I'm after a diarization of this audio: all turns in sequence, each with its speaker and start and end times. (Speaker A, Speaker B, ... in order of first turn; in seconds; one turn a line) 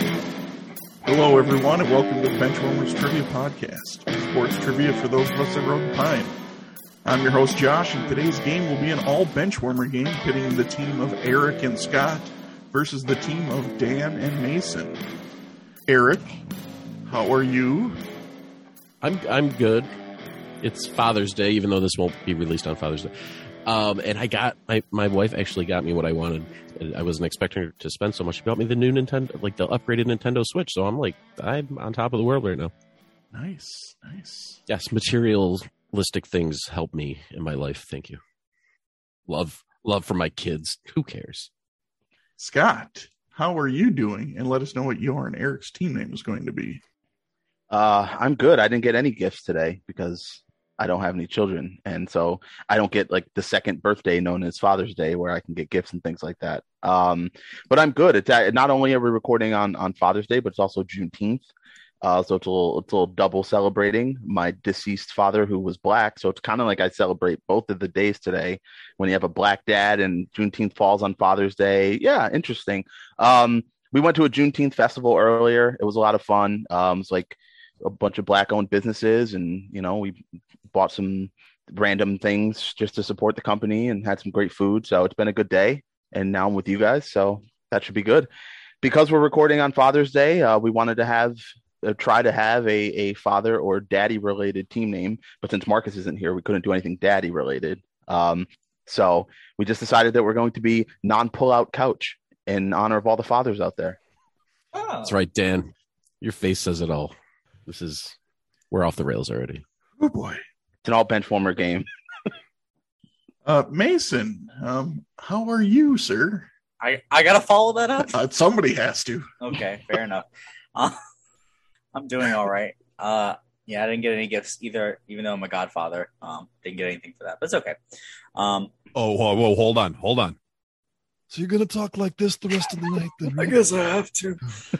Speaker A: 1.1-6.4
Speaker A: 7.0-15.0
Speaker A: 15.9-16.3
Speaker A: 17.1-18.0
Speaker B: 19.0-19.9
Speaker B: 20.6-23.1
Speaker B: 23.6-32.7
Speaker A: 33.3-34.6
Speaker B: 34.7-38.2
Speaker B: 39.3-41.5
Speaker A: 42.4-46.8
Speaker C: 47.7-61.5
Speaker C: 62.0-80.2
Speaker C: 80.7-88.3
Speaker C: 88.8-104.0
Speaker D: 104.7-105.1
Speaker B: 105.0-105.7
Speaker B: 106.2-107.1
Speaker B: 107.7-108.1
Speaker B: 108.7-109.6
Speaker A: 110.0-110.4
Speaker C: 110.8-111.9
Speaker A: 113.4-116.5
Speaker D: 116.8-118.2
Speaker A: 118.0-119.3
Speaker D: 119.4-121.0
Speaker D: 121.9-127.8
Speaker D: 128.3-128.7
Speaker E: 128.9-130.4
Speaker E: 131.3-133.9
Speaker B: 133.8-134.2